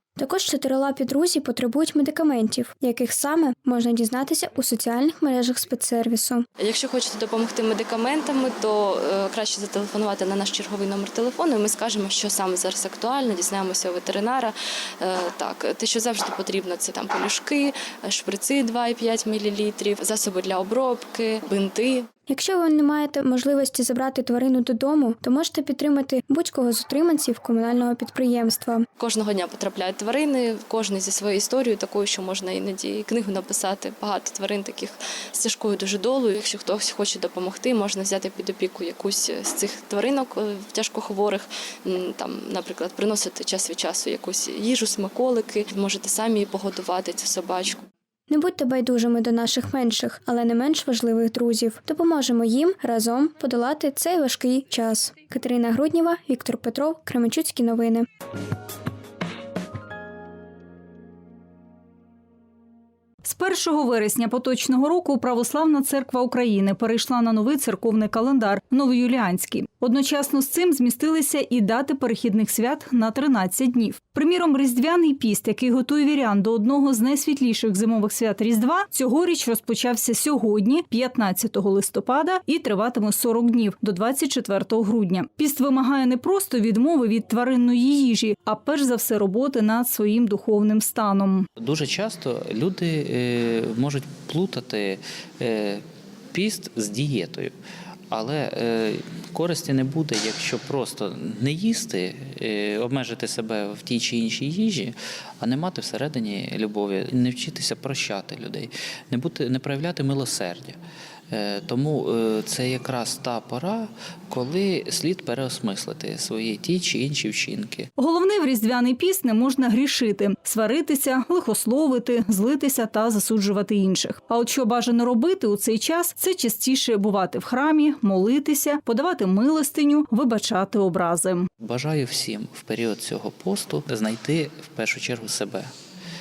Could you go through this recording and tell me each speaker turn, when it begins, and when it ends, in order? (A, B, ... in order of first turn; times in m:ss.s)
0:00.2-0:06.5 A
0:06.6-0:22.1 B
0:22.3-0:28.9 A
0:29.0-0:47.9 B
0:48.3-0:58.1 A
1:03.2-1:31.5 C
1:31.6-1:37.5 D
1:38.1-1:50.8 D
1:51.3-1:57.9 D
1:58.0-2:11.5 C
2:11.6-2:15.7 D